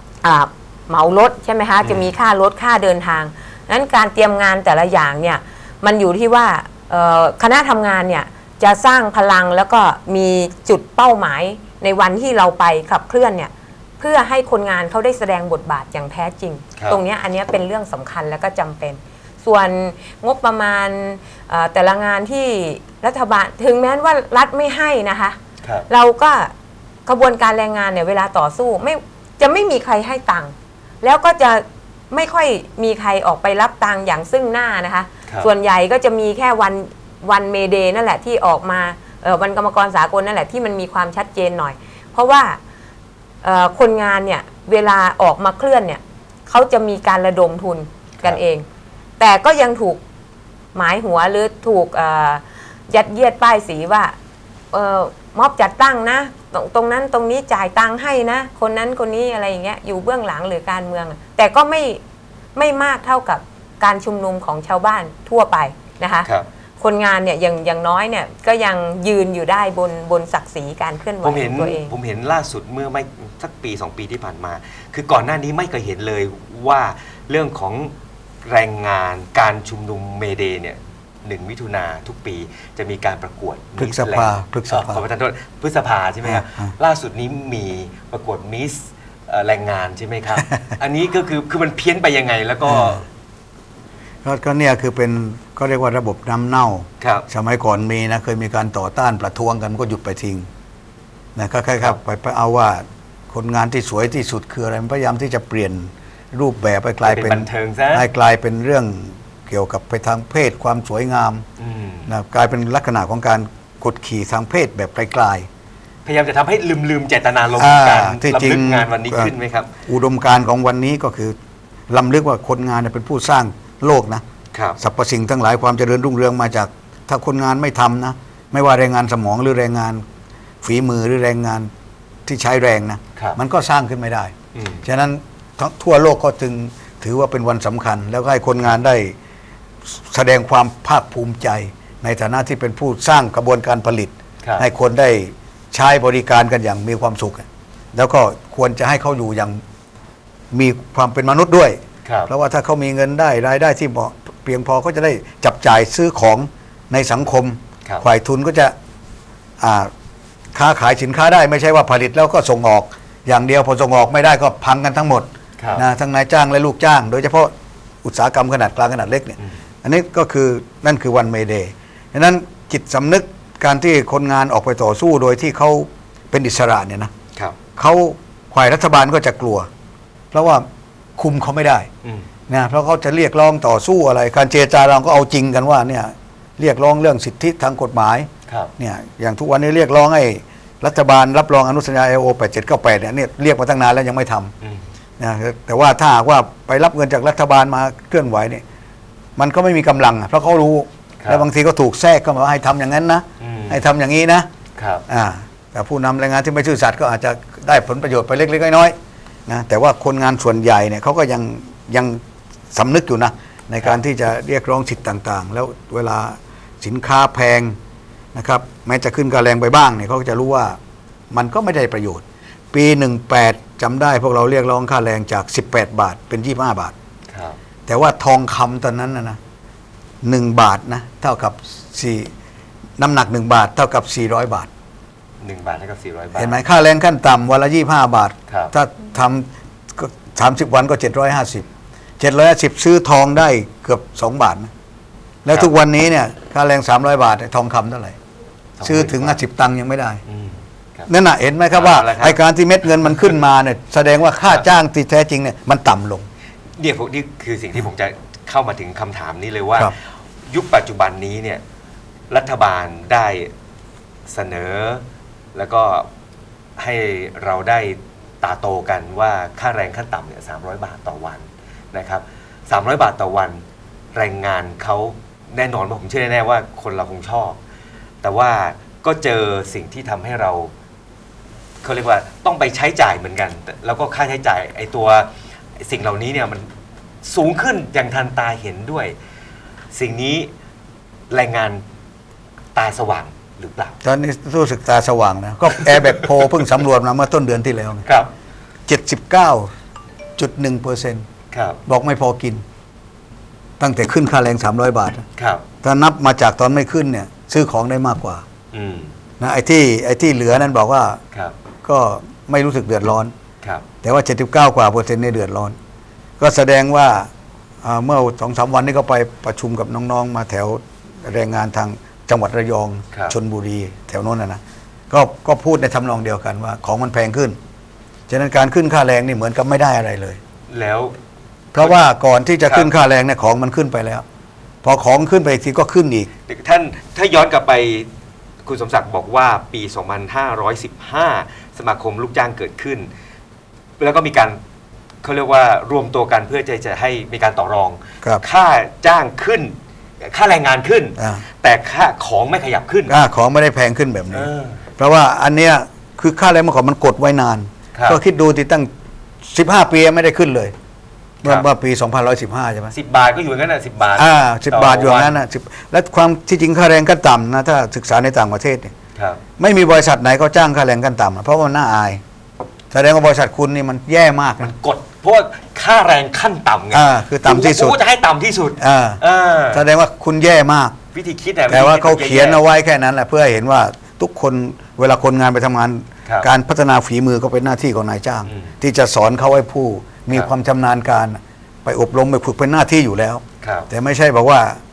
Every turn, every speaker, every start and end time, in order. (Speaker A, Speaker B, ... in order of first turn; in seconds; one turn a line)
Speaker A: 0.2-25.4
Speaker B: 1.8-2.1
Speaker A: 25.9-26.5
Speaker A: 27.1-42.6
Speaker A: 43.4-48.6
Speaker A: 49.2-50.0
Speaker A: 50.7-54.1
Speaker A: 54.7-62.0
Speaker A: 62.5-71.9
Speaker B: 71.2-77.9
Speaker B: 78.4-93.0
Speaker C: 83.8-85.0
Speaker C: 86.2-86.7
Speaker C: 92.7-93.0
Speaker C: 94.2-100.5
Speaker C: 101.3-111.4
Speaker B: 107.0-108.1
Speaker B: 111.6-112.1
Speaker C: 112.1-115.5
Speaker B: 116.0-119.7
Speaker C: 117.5-119.3
Speaker C: 119.9-121.3
Speaker C: 121.9-124.2
Speaker C: 124.8-130.0
Speaker C: 130.6-131.7
Speaker C: 132.2-139.1
Speaker B: 134.5-134.8
Speaker C: 139.9-149.6
Speaker B: 144.4-144.7
Speaker C: 150.5-158.7
Speaker B: 152.0-152.3
Speaker C: 159.6-159.9
Speaker C: 160.5-167.5
Speaker B: 165.6-165.8
Speaker C: 168.0-177.1
Speaker C: 177.8-179.7
Speaker C: 180.3-180.7
Speaker C: 181.2-181.9
Speaker C: 182.5-194.5
Speaker C: 195.2-198.6
Speaker C: 199.4-204.5
Speaker B: 201.2-201.4
Speaker B: 203.4-203.8
Speaker B: 204.8-205.0
Speaker C: 205.1-208.9
Speaker C: 209.5-212.2
Speaker C: 212.7-217.8
Speaker C: 218.3-220.8
Speaker C: 221.3-226.9
Speaker B: 227.3-227.6
Speaker C: 227.9-229.4
Speaker C: 230.2-232.3
Speaker C: 233.0-234.7
Speaker B: 235.4-236.6
Speaker C: 236.3-241.7
Speaker C: 242.2-244.7
Speaker C: 245.4-248.2
Speaker B: 248.8-249.4
Speaker C: 248.8-250.2
Speaker B: 250.3-251.1
Speaker C: 251.1-256.2
Speaker B: 251.7-252.4
Speaker B: 253.0-253.3
Speaker B: 256.8-259.9
Speaker B: 260.5-261.6
Speaker B: 262.3-263.5
Speaker B: 264.3-266.1
Speaker B: 266.8-273.6
Speaker B: 274.1-277.6
Speaker B: 278.2-280.7
Speaker B: 281.8-286.7
Speaker B: 287.2-289.1
Speaker B: 289.9-290.5
Speaker B: 291.3-291.8
Speaker B: 292.7-293.9
Speaker C: 294.0-298.0
Speaker C: 298.9-299.7
Speaker C: 300.4-301.2
Speaker B: 301.5-301.8
Speaker C: 301.9-302.6
Speaker C: 303.8-305.2
Speaker B: 305.4-305.6
Speaker C: 305.8-308.4
Speaker B: 308.7-309.1
Speaker C: 309.4-311.2
Speaker C: 311.8-313.3
Speaker C: 314.0-315.7
Speaker C: 316.4-317.3
Speaker C: 317.8-327.6
Speaker C: 328.3-330.4
Speaker B: 330.7-331.1
Speaker C: 331.7-334.2
Speaker B: 331.8-332.0
Speaker B: 332.6-332.9
Speaker C: 334.8-336.3
Speaker B: 336.5-338.1
Speaker B: 338.6-343.1
Speaker B: 344.0-344.6
Speaker B: 345.2-353.1
Speaker C: 351.2-351.4
Speaker C: 353.1-358.9
Speaker B: 354.3-354.8
Speaker B: 357.9-358.2
Speaker C: 359.4-360.7
Speaker C: 361.4-362.9
Speaker B: 362.9-365.4
Speaker C: 364.1-368.9
Speaker B: 369.1-369.4
Speaker C: 369.6-372.2
Speaker C: 372.9-374.7
Speaker B: 374.6-379.9
Speaker C: 376.9-378.0
Speaker C: 378.8-379.2
Speaker C: 379.7-380.9
Speaker B: 381.1-382.6
Speaker C: 381.7-394.8
Speaker B: 388.5-388.7
Speaker B: 393.6-393.9